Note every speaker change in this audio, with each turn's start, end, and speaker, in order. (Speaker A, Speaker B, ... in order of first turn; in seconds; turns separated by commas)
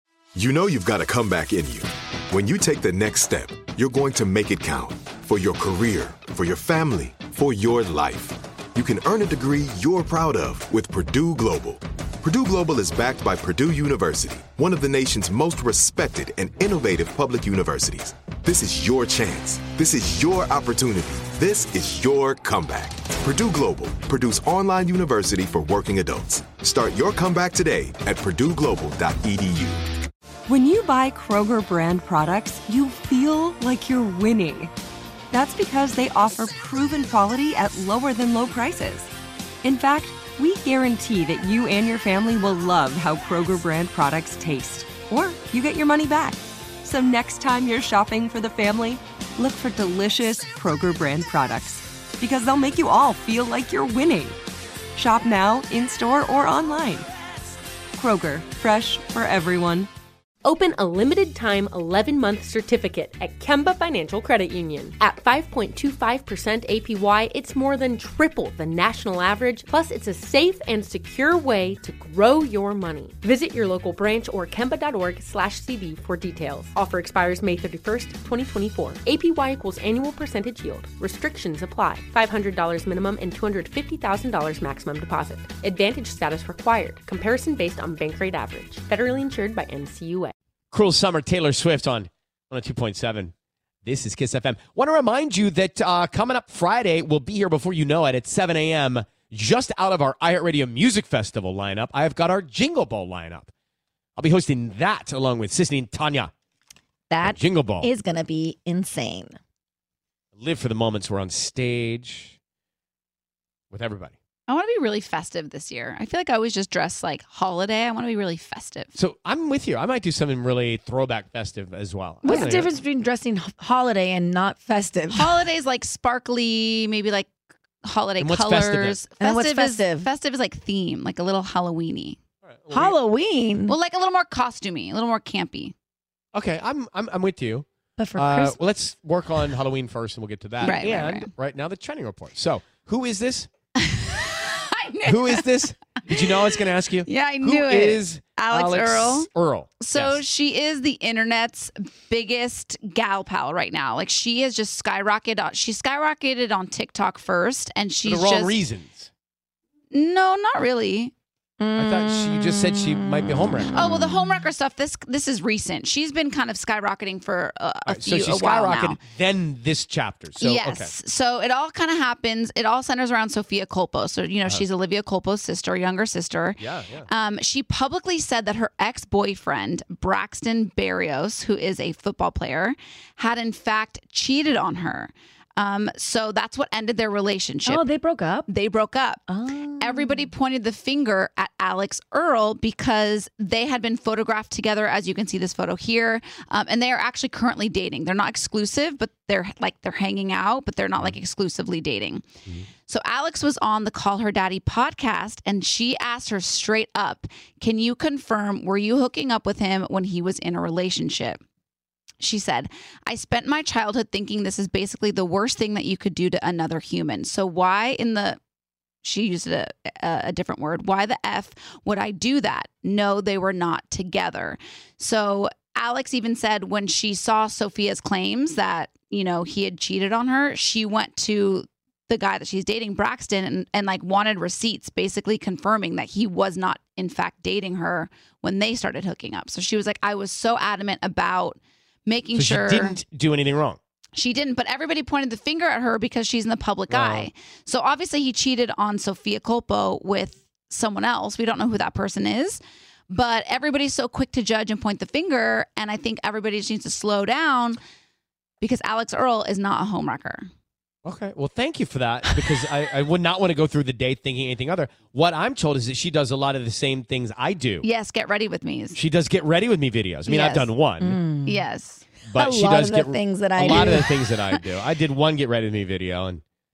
Speaker A: 0.3-29.8, Speaker B: 30.5-34.7, Speaker B: 35.3-39.1, Speaker B: 39.6-54.4, Speaker B: 54.9-57.1, Speaker B: 57.9-59.9, Speaker C: 60.4-90.3, Speaker D: 90.7-93.3, Speaker D: 93.8-103.5, Speaker D: 104.2-106.3, Speaker E: 107.1-109.3, Speaker D: 107.2-107.9, Speaker D: 110.3-112.3, Speaker D: 113.7-114.1, Speaker F: 114.5-118.9, Speaker D: 119.0-122.7, Speaker E: 122.2-125.4, Speaker F: 125.1-127.3, Speaker F: 127.8-132.2, Speaker D: 128.2-129.1, Speaker E: 129.2-130.1, Speaker D: 132.4-133.0, Speaker E: 132.7-133.8, Speaker F: 133.7-135.7, Speaker D: 136.3-143.5, Speaker E: 138.0-138.6, Speaker F: 140.6-141.3, Speaker F: 144.7-145.5, Speaker D: 145.0-150.2, Speaker F: 146.1-158.6, Speaker D: 158.0-159.1, Speaker F: 159.9-161.1, Speaker D: 161.7-163.8, Speaker F: 163.7-169.0, Speaker D: 167.8-170.9, Speaker F: 170.4-187.9, Speaker D: 176.6-177.1, Speaker E: 187.7-188.5, Speaker F: 188.5-189.2, Speaker E: 189.3-190.1, Speaker F: 189.8-202.3, Speaker F: 202.8-211.4, Speaker F: 212.2-218.4, Speaker F: 219.0-243.0, Speaker D: 242.3-243.8, Speaker F: 244.1-257.8, Speaker D: 246.9-247.3, Speaker F: 258.6-260.5, Speaker D: 261.0-267.9, Speaker F: 267.8-269.0, Speaker D: 268.9-271.2, Speaker F: 270.3-270.7, Speaker E: 271.0-271.7, Speaker F: 271.4-272.1, Speaker D: 272.3-276.4, Speaker E: 272.3-274.2